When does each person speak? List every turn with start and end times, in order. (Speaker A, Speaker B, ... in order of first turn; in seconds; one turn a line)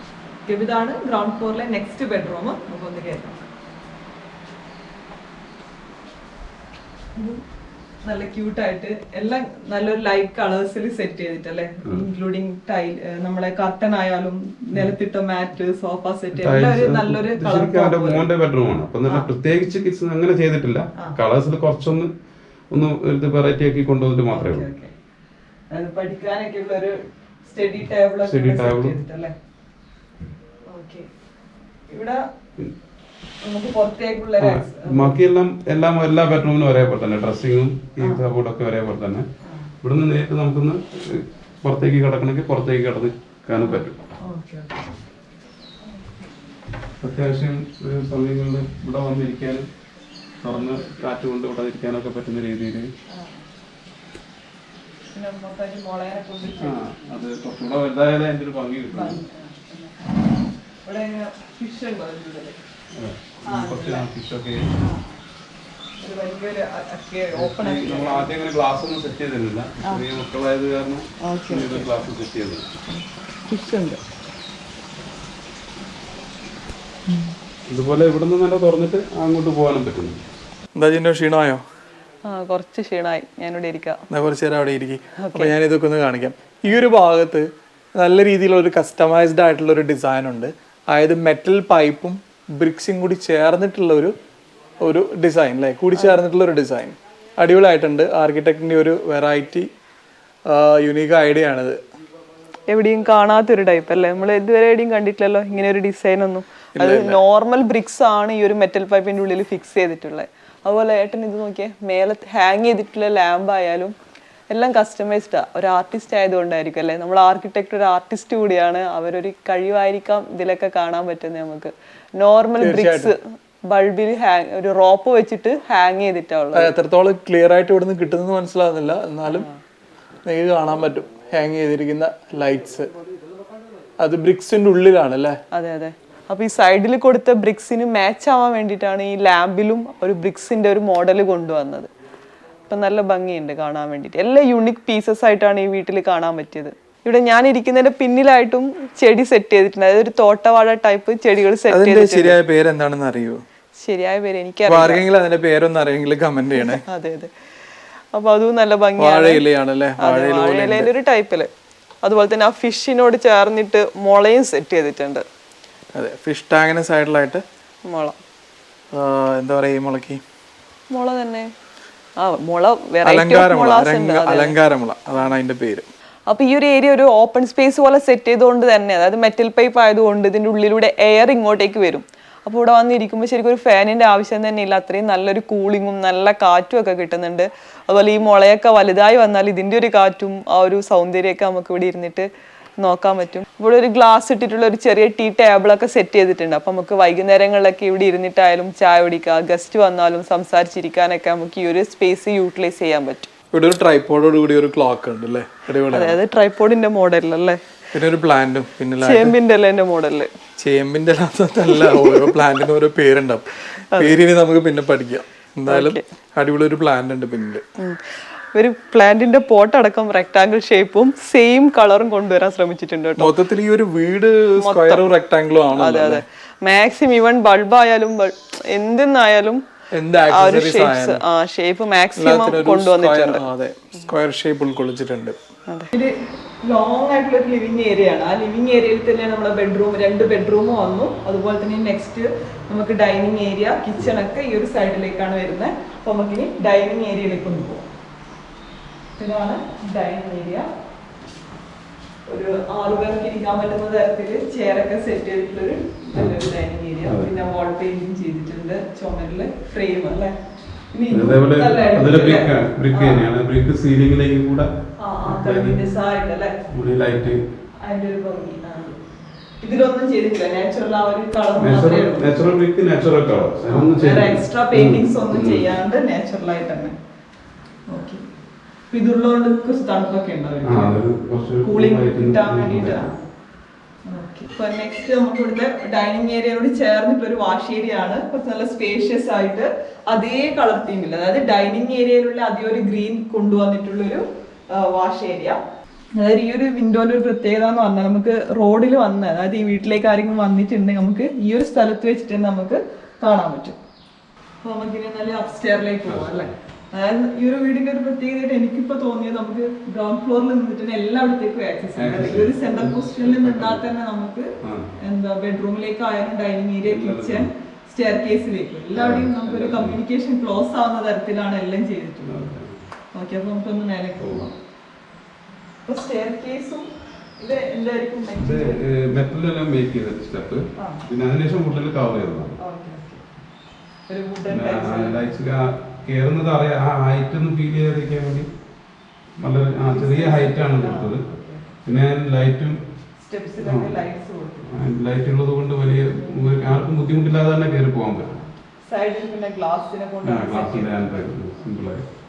Speaker A: 0.5-3.4
Speaker A: 7.1-7.4
Speaker A: 8.0-18.2
Speaker B: 16.3-22.1
Speaker A: 19.1-19.3
Speaker B: 22.7-24.7
Speaker A: 24.3-24.9
Speaker A: 25.7-29.3
Speaker B: 28.2-29.0
Speaker A: 30.7-31.1
Speaker A: 31.9-32.2
Speaker A: 33.4-35.2
Speaker B: 34.4-39.2
Speaker A: 39.5-39.7
Speaker B: 39.8-44.0
Speaker A: 43.6-44.9
Speaker B: 47.0-49.7
Speaker B: 50.4-52.9
Speaker A: 50.5-51.0
Speaker A: 53.1-53.5
Speaker A: 55.1-56.8
Speaker B: 56.6-59.2
Speaker A: 58.9-60.1
Speaker A: 60.8-62.6
Speaker B: 63.0-64.7
Speaker A: 63.5-64.1
Speaker A: 64.8-65.1
Speaker A: 66.0-68.3
Speaker B: 67.3-72.7
Speaker A: 71.2-72.0
Speaker A: 72.9-74.0
Speaker A: 77.1-77.3
Speaker B: 77.7-80.2
Speaker C: 80.8-81.6
Speaker A: 82.2-84.0
Speaker C: 84.1-94.1
Speaker A: 85.2-85.5
Speaker C: 94.8-99.7
Speaker C: 100.5-101.8
Speaker A: 102.7-113.9
Speaker C: 106.8-107.2
Speaker A: 114.5-126.7
Speaker C: 122.6-123.1
Speaker C: 126.5-129.4
Speaker A: 129.3-129.6
Speaker C: 130.2-132.9
Speaker C: 134.0-135.4
Speaker A: 135.5-141.9
Speaker A: 142.7-152.4
Speaker C: 151.7-153.4
Speaker A: 153.8-155.0
Speaker C: 154.7-156.8
Speaker A: 156.6-157.3
Speaker A: 158.1-159.4
Speaker C: 159.0-160.9
Speaker A: 160.0-161.5
Speaker A: 162.0-165.2
Speaker C: 165.9-167.4
Speaker A: 167.8-168.2
Speaker C: 168.9-170.2
Speaker A: 170.9-171.5
Speaker A: 172.2-174.6
Speaker C: 173.0-175.9
Speaker A: 176.3-192.3
Speaker A: 192.8-203.3
Speaker C: 203.5-206.2
Speaker A: 205.9-207.6
Speaker C: 207.9-209.3
Speaker A: 209.0-210.3
Speaker C: 210.6-217.6
Speaker A: 211.7-212.2
Speaker A: 215.7-216.0
Speaker A: 218.5-223.3
Speaker C: 223.2-226.2
Speaker A: 224.6-225.1
Speaker A: 225.7-229.6
Speaker C: 229.9-231.2
Speaker A: 230.3-233.4
Speaker C: 232.2-235.4
Speaker A: 235.7-236.1
Speaker A: 236.6-247.8
Speaker A: 249.2-250.7
Speaker A: 252.3-260.3
Speaker B: 256.1-257.3
Speaker A: 260.9-263.3
Speaker B: 261.1-264.7
Speaker A: 265.0-266.6
Speaker B: 265.2-265.8
Speaker B: 266.7-267.4
Speaker A: 267.8-268.9
Speaker A: 269.6-272.3
Speaker B: 271.6-275.7
Speaker A: 273.7-276.9
Speaker A: 277.9-278.2
Speaker A: 278.9-281.0
Speaker B: 280.6-283.1
Speaker A: 281.6-283.2
Speaker A: 284.1-294.2
Speaker A: 294.8-295.6
Speaker A: 296.2-303.8
Speaker A: 304.6-322.3
Speaker B: 306.1-306.5
Speaker B: 311.9-313.8
Speaker B: 314.6-314.9
Speaker B: 316.9-317.5
Speaker B: 318.9-320.0
Speaker B: 322.2-322.8
Speaker A: 323.1-324.5
Speaker B: 324.2-324.4
Speaker A: 325.9-326.9
Speaker A: 327.4-328.8
Speaker B: 328.4-332.6
Speaker A: 330.8-331.0
Speaker A: 332.6-333.2
Speaker A: 334.1-335.3
Speaker B: 334.5-338.5
Speaker B: 339.4-341.2
Speaker A: 339.9-341.7
Speaker B: 341.8-342.8
Speaker A: 343.2-344.7
Speaker B: 343.6-344.0
Speaker B: 344.6-348.4
Speaker A: 348.8-351.3
Speaker B: 350.2-352.1